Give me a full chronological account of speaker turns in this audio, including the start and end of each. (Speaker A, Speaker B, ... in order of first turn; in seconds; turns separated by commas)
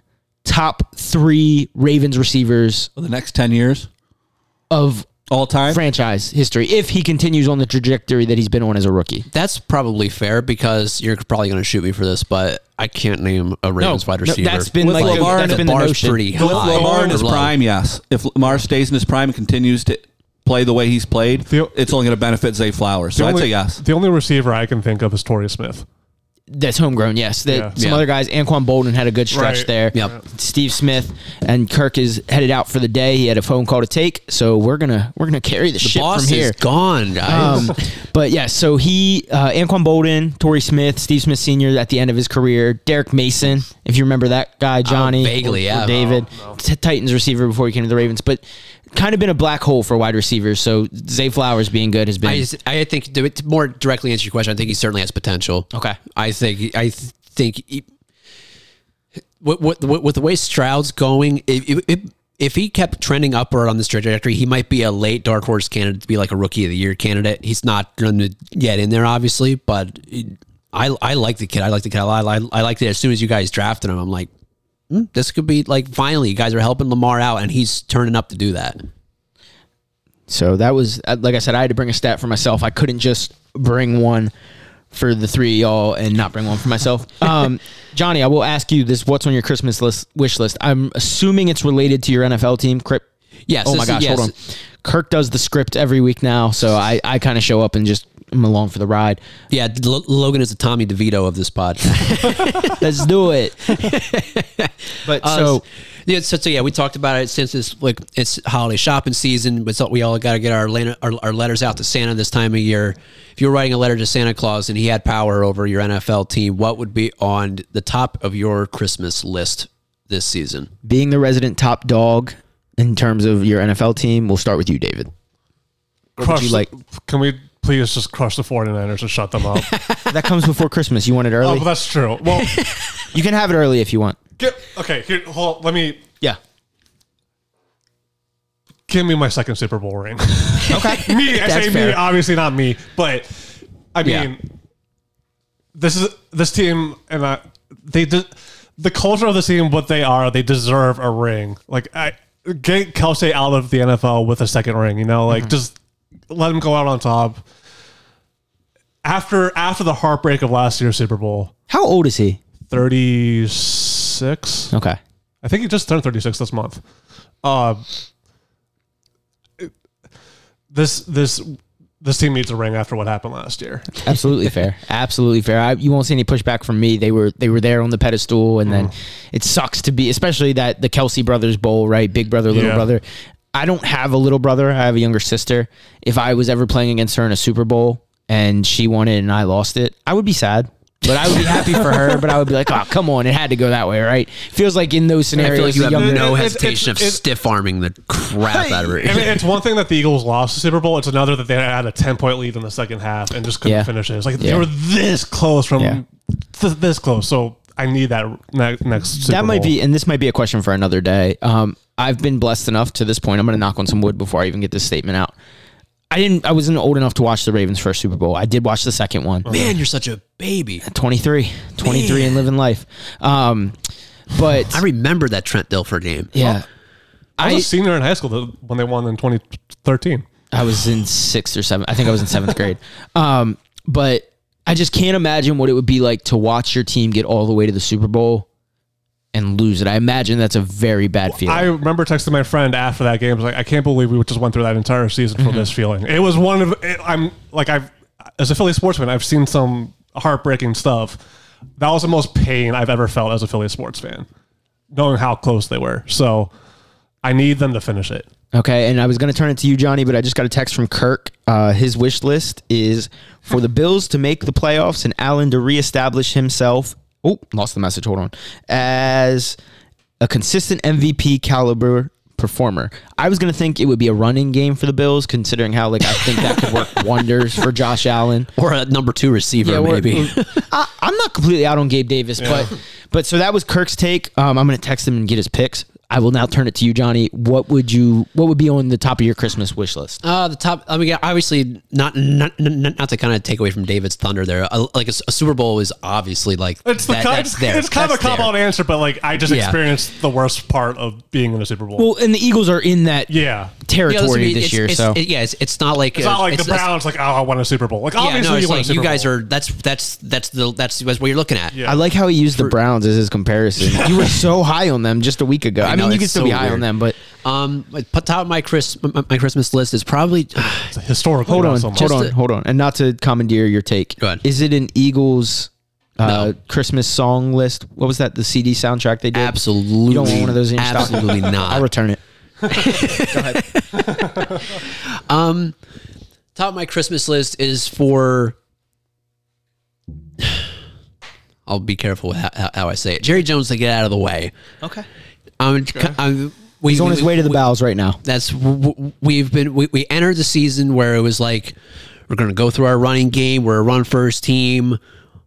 Speaker A: 0.5-2.9, Speaker B: 3.0-3.9, Speaker A: 4.7-5.1, Speaker B: 5.3-5.8, Speaker A: 5.7-9.3, Speaker C: 9.3-17.6, Speaker A: 13.8-16.2, Speaker B: 14.9-15.7, Speaker D: 16.3-17.3, Speaker B: 16.4-23.8, Speaker D: 21.5-21.8, Speaker D: 23.1-25.9, Speaker A: 26.5-36.6, Speaker D: 27.5-27.7, Speaker C: 27.8-28.0, Speaker D: 29.3-30.2, Speaker C: 35.8-37.8, Speaker A: 37.3-52.5, Speaker C: 44.9-45.9, Speaker D: 45.4-46.6, Speaker C: 52.2-57.9, Speaker C: 59.4-74.3, Speaker C: 74.9-78.8, Speaker A: 80.3-84.3, Speaker A: 84.9-93.0, Speaker C: 93.5-94.3, Speaker A: 93.6-99.2, Speaker C: 99.5-102.8, Speaker A: 102.8-103.6, Speaker C: 103.7-120.7, Speaker A: 105.0-105.6, Speaker A: 120.8-125.1, Speaker D: 126.2-129.7, Speaker A: 126.2-126.7, Speaker C: 129.6-130.3, Speaker A: 130.1-131.7, Speaker D: 131.4-132.6, Speaker C: 132.2-133.1, Speaker A: 133.1-134.2, Speaker D: 134.4-136.0, Speaker D: 138.9-144.5, Speaker A: 140.7-141.1, Speaker C: 140.9-142.0, Speaker C: 144.0-144.3, Speaker D: 145.8-155.8, Speaker D: 156.3-157.4, Speaker D: 159.0-161.5, Speaker A: 161.7-162.4, Speaker D: 162.7-164.7, Speaker A: 164.7-165.0, Speaker D: 165.4-166.8, Speaker D: 167.4-167.8, Speaker D: 170.7-174.1, Speaker A: 174.0-196.4, Speaker D: 178.7-178.9, Speaker D: 182.5-182.9, Speaker C: 191.4-191.9, Speaker D: 195.4-197.2, Speaker C: 195.4-199.5, Speaker A: 198.5-199.1, Speaker D: 199.0-209.7, Speaker A: 203.7-204.7, Speaker A: 209.2-215.3, Speaker A: 216.1-219.6, Speaker D: 219.5-219.7, Speaker C: 219.5-220.8, Speaker A: 220.8-223.8, Speaker C: 221.8-222.4, Speaker A: 224.3-224.8, Speaker C: 224.7-226.4, Speaker A: 226.3-226.7, Speaker A: 227.4-227.7, Speaker D: 227.4-230.3, Speaker A: 230.5-238.5, Speaker A: 239.3-241.7, Speaker D: 241.3-251.2, Speaker A: 245.4-245.7, Speaker D: 251.8-254.3, Speaker D: 254.9-256.5, Speaker D: 257.2-258.3, Speaker A: 258.5-269.6, Speaker A: 270.2-278.5, Speaker C: 276.3-277.0, Speaker C: 278.6-280.7, Speaker A: 279.6-290.2, Speaker D: 282.4-282.7, Speaker C: 290.2-298.6, Speaker D: 296.9-302.1, Speaker C: 299.5-299.8, Speaker A: 302.0-305.2, Speaker D: 303.3-303.7, Speaker C: 304.1-307.0, Speaker D: 306.1-309.3, Speaker C: 308.2-311.8, Speaker D: 311.7-312.0, Speaker A: 311.9-317.2, Speaker C: 313.8-314.4, Speaker C: 315.8-316.9, Speaker C: 317.4-320.9, Speaker D: 320.6-322.1, Speaker A: 321.5-329.6, Speaker C: 321.9-322.3, Speaker C: 329.3-331.9, Speaker A: 330.1-332.2, Speaker C: 332.7-335.8, Speaker A: 332.9-333.6, Speaker D: 334.1-334.6, Speaker C: 336.6-338.6, Speaker C: 341.7-344.5, Speaker A: 344.8-345.1, Speaker C: 345.6-347.6, Speaker A: 346.9-348.2, Speaker C: 348.2-351.8, Speaker C: 352.3-355.0